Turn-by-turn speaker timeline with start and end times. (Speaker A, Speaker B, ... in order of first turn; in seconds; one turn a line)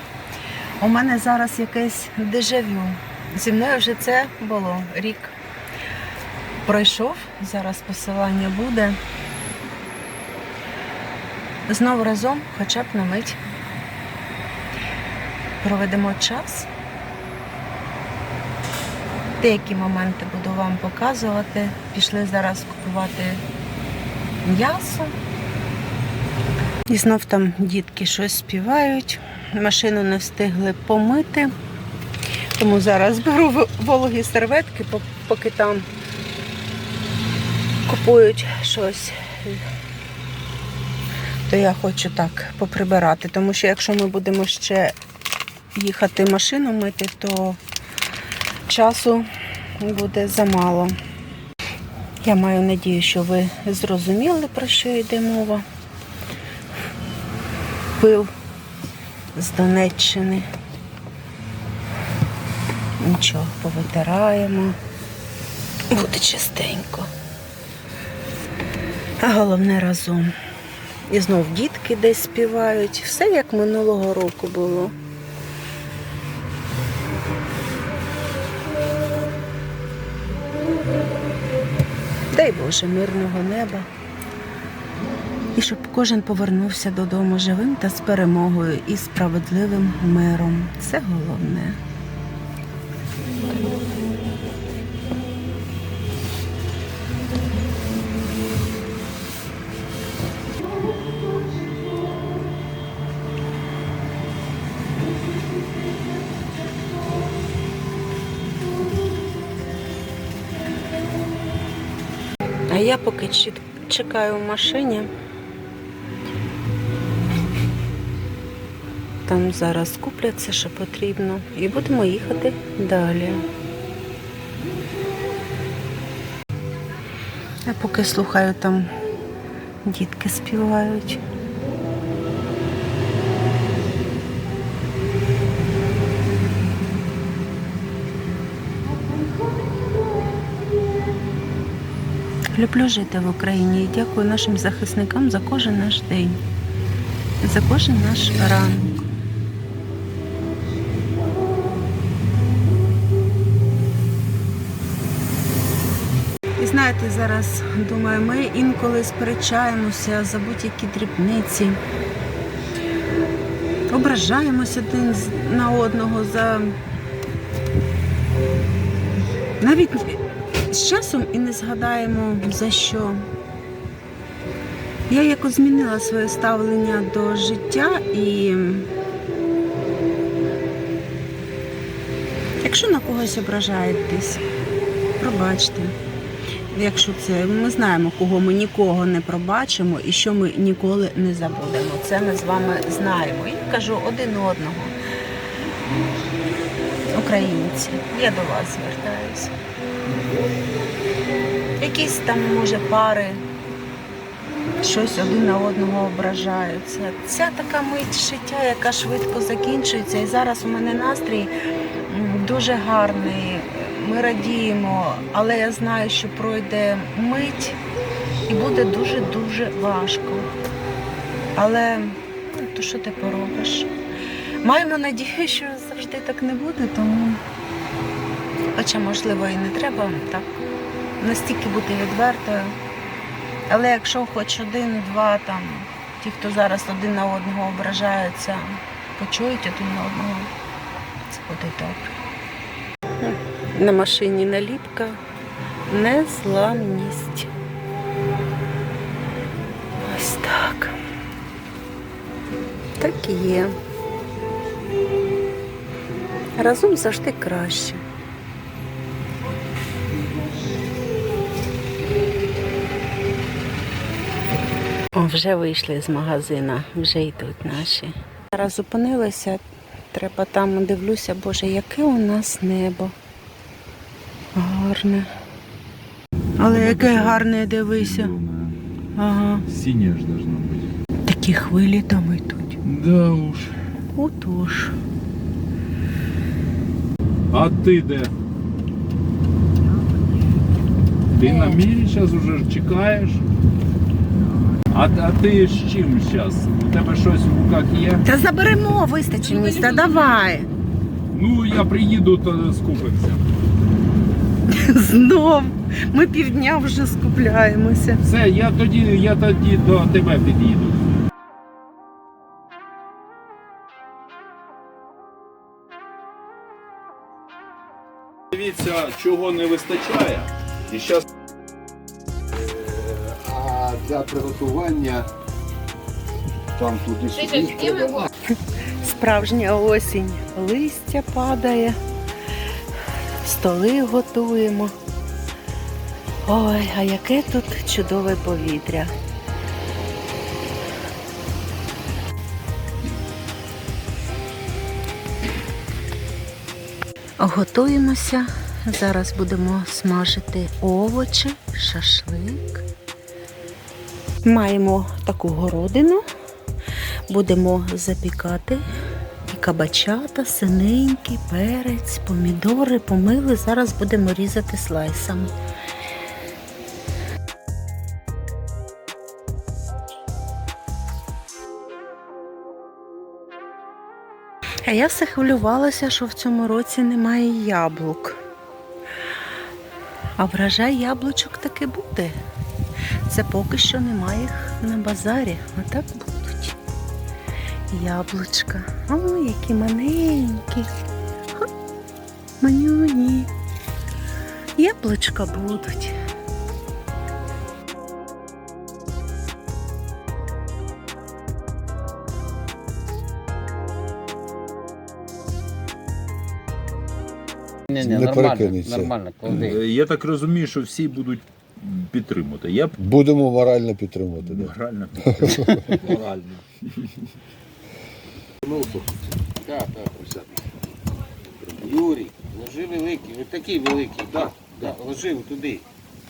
Speaker A: 0.8-5.3
Speaker A: 6.6-9.0
Speaker A: 11.7-13.4
Speaker A: 15.6-16.7
Speaker A: 19.4-23.4
Speaker A: 24.4-25.1
Speaker A: 26.9-31.5
Speaker A: 32.6-35.9
Speaker A: 37.9-39.6
Speaker A: 41.5-44.9
Speaker A: 45.7-47.6
Speaker A: 48.7-49.2
Speaker A: 49.8-50.9
Speaker A: 52.2-55.6
Speaker A: 58.0-58.3
Speaker A: 59.3-60.5
Speaker A: 63.0-64.8
Speaker A: 65.9-67.1
Speaker A: 69.2-70.3
Speaker A: 71.1-74.9
Speaker A: 82.3-83.9
Speaker A: 85.5-91.8
Speaker A: 112.7-115.1
Speaker A: 119.2-123.4
Speaker A: 127.6-128.9
Speaker A: 129.8-131.2
Speaker A: 142.5-146.4
Speaker A: 147.4-148.9
Speaker A: 156.6-161.8
Speaker A: 163.9-166.8
Speaker A: 169.6-173.2
Speaker A: 175.1-178.9
Speaker A: 182.6-184.4
Speaker A: 185.2-185.9
Speaker A: 186.7-194.9
Speaker A: 197.1-199.5
Speaker A: 201.8-203.4
Speaker A: 204.8-211.5
Speaker A: 212.1-217.8
Speaker A: 218.5-220.5
Speaker A: 221.5-223.9
Speaker A: 224.6-227.4
Speaker A: 228.7-230.5
Speaker A: 231.2-232.8
Speaker A: 233.7-240.5
Speaker A: 241.3-242.1
Speaker A: 243.2-245.2
Speaker A: 245.9-247.5
Speaker A: 250.0-250.9
Speaker A: 253.0-253.8
Speaker A: 256.6-258.0
Speaker A: 265.1-273.1
Speaker A: 274.5-275.3
Speaker A: 276.6-278.3
Speaker B: 276.6-278.8
Speaker A: 279.1-279.6
Speaker B: 279.7-280.9
Speaker A: 281.2-282.8
Speaker B: 282.8-283.8
Speaker A: 284.1-284.9
Speaker B: 287.5-288.3
Speaker B: 291.3-293.4
Speaker A: 291.4-291.8
Speaker B: 294.9-298.2
Speaker A: 298.2-300.7
Speaker B: 301.3-303.4
Speaker A: 304.7-308.2
Speaker B: 308.2-311.0
Speaker B: 318.5-321.2
Speaker C: 322.5-325.3
Speaker C: 326.7-328.3
Speaker A: 328.5-332.0
Speaker A: 333.4-334.9
Speaker A: 336.4-339.1
Speaker A: 347.4-352.8
Speaker A: 354.4-356.2
Speaker A: 357.3-358.8
Speaker A: 359.4-365.5
Speaker A: 374.8-378.4
Speaker A: 380.4-382.4
Speaker A: 383.2-386.8
Speaker A: 387.9-390.9
Speaker A: 392.6-393.5
Speaker A: 394.8-396.1
Speaker D: 407.9-409.8
Speaker C: 407.9-409.5
Speaker B: 409.4-413.0
Speaker C: 413.0-416.1
Speaker B: 414.4-417.1
Speaker C: 418.6-419.5
Speaker D: 419.6-420.4
Speaker C: 421.6-422.0
Speaker D: 421.8-425.8
Speaker C: 424.3-424.7